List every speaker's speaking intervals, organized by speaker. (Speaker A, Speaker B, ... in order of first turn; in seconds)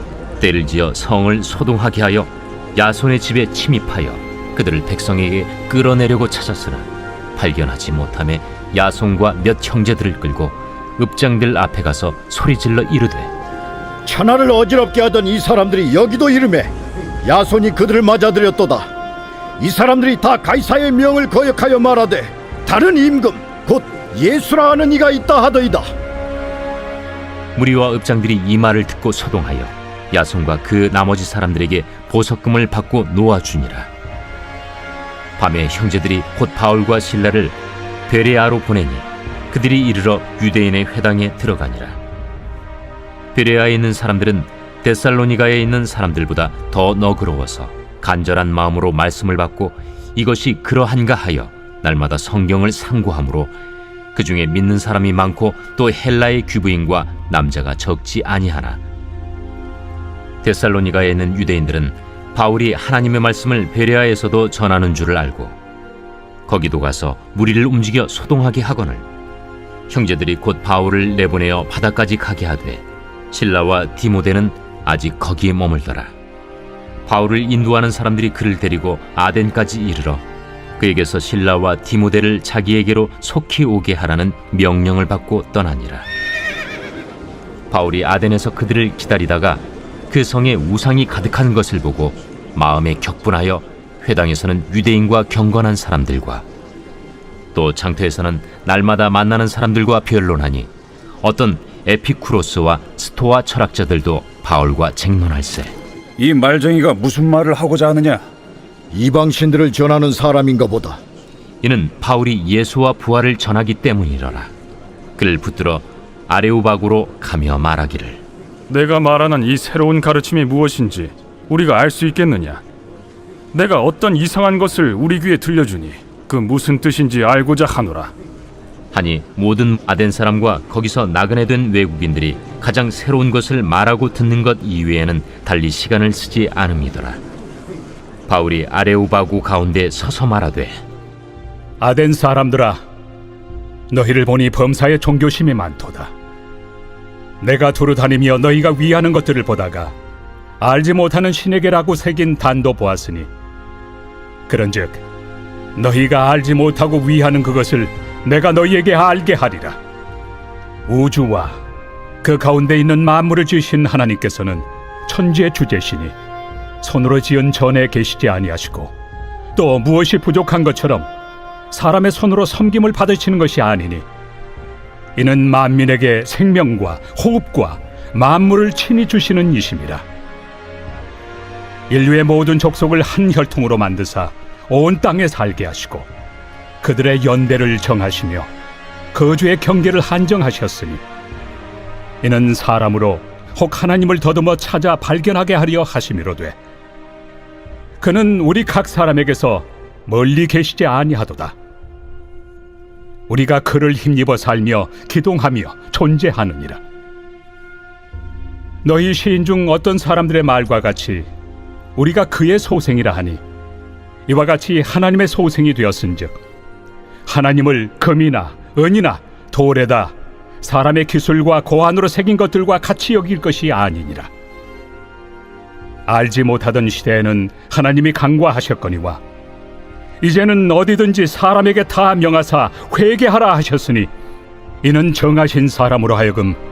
Speaker A: 0.4-13.3, 27.5-33.9, 35.4-37.5, 38.1-42.0, 43.3-53.5, 54.1-58.8, 60.4-65.5, 66.5-69.0, 69.9-76.1, 77.0-80.2, 80.8-86.0, 87.7-96.4, 97.5-100.7, 101.2-105.7, 111.6-114.5, 115.2-118.2, 128.9-137.2, 138.3-140.8
Speaker B: 14.0-16.7, 17.2-18.9, 19.6-25.9, 108.9-111.0
Speaker C: 106.2-108.2
Speaker D: 118.7-122.6, 123.5-128.1
Speaker E: 141.8-142.8, 143.9-146.1, 147.4-149.9, 150.6-153.3, 154.5-155.0, 155.7-159.8, 160.9-161.6, 162.2-166.1, 166.8-168.9, 169.5-171.1, 171.7-174.1, 175.2-180.0, 181.9-186.1, 186.8-188.5, 189.1-191.0, 192.2-196.6, 198.0-201.5, 203.3-206.8, 208.8-211.3, 211.9-213.4, 214.3-216.4, 217.3-224.3, 226.1-229.2, 230.2-234.1, 234.8-236.6